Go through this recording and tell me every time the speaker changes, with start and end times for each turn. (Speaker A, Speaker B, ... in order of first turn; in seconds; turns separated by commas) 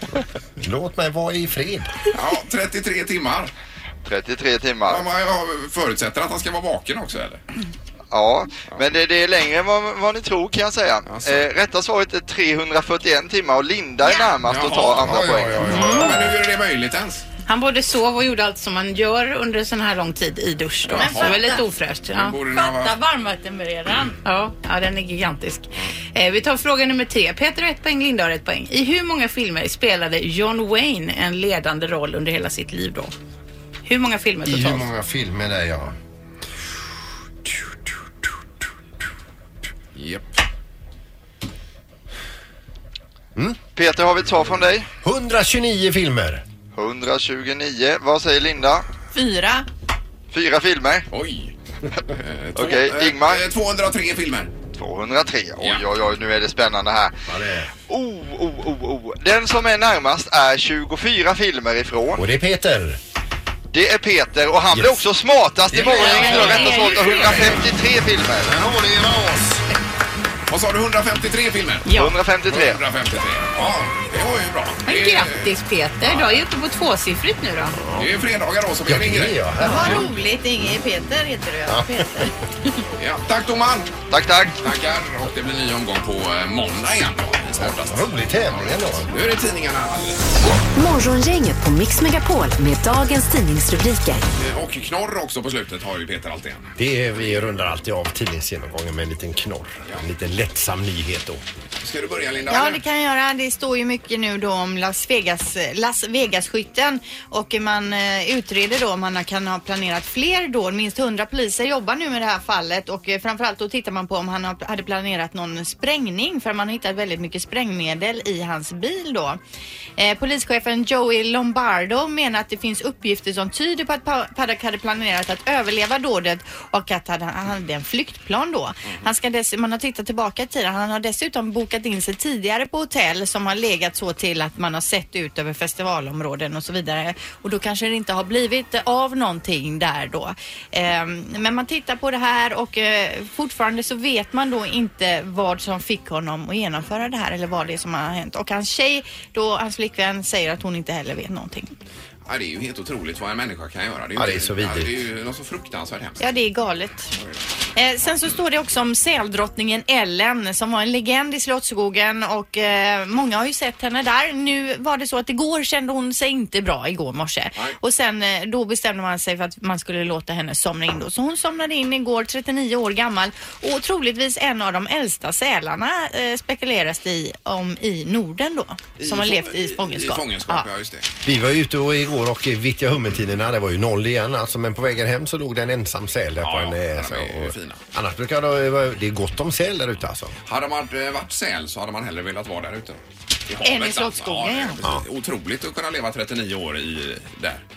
Speaker A: 0.6-1.9, Speaker B: 2.1-3.5, Speaker C: 4.0-5.0, Speaker B: 4.9-7.4, Speaker C: 8.1-15.8, Speaker B: 11.1-11.4, Speaker D: 14.0-14.3, Speaker B: 14.4-17.3, Speaker A: 15.0-16.2, Speaker E: 17.5-22.4, Speaker B: 20.9-21.5, Speaker D: 20.9-21.6, Speaker B: 22.1-23.0, Speaker D: 22.5-24.2, Speaker E: 24.2-33.1, Speaker E: 33.9-34.9, Speaker A: 34.5-36.0, Speaker B: 40.0-40.2, Speaker C: 43.8-44.9, Speaker A: 45.0-46.4, Speaker C: 46.8-48.8, Speaker D: 49.1-49.7, Speaker C: 50.3-51.0, Speaker B: 51.1-51.5, Speaker B: 52.1-54.5, Speaker C: 52.6-53.4, Speaker C: 54.8-57.1, Speaker B: 55.6-55.9, Speaker A: 57.3-57.7, Speaker C: 57.9-62.2, Speaker A: 62.2-63.0, Speaker C: 63.7-68.5, Speaker A: 64.7-65.0, Speaker A: 65.7-66.6, Speaker E: 65.8-67.4, Speaker B: 66.0-67.7, Speaker A: 68.4-69.6, Speaker B: 70.5-71.9, Speaker E: 71.8-72.2, Speaker C: 72.0-72.8, Speaker B: 72.5-76.5, Speaker E: 74.9-77.8, Speaker A: 77.8-78.1, Speaker B: 78.0-80.1, Speaker A: 78.8-80.1, Speaker D: 79.6-82.7, Speaker A: 81.7-82.3, Speaker B: 83.0-83.9, Speaker C: 84.1-84.5, Speaker B: 84.6-90.5, Speaker A: 87.6-89.1, Speaker F: 90.8-94.2, Speaker B: 94.4-96.7, Speaker A: 96.8-101.4, Speaker B: 101.8-102.8, Speaker D: 102.5-119.4, Speaker D: 120.0-151.7, Speaker B: 152.3-156.3, Speaker A: 154.2-154.9, Speaker D: 156.2-157.1, Speaker D: 157.8-180.7, Speaker B: 179.0-181.1, Speaker A: 181.2-190.3, Speaker B: 186.4-187.8, Speaker B: 190.5-197.6, Speaker D: 193.6-194.8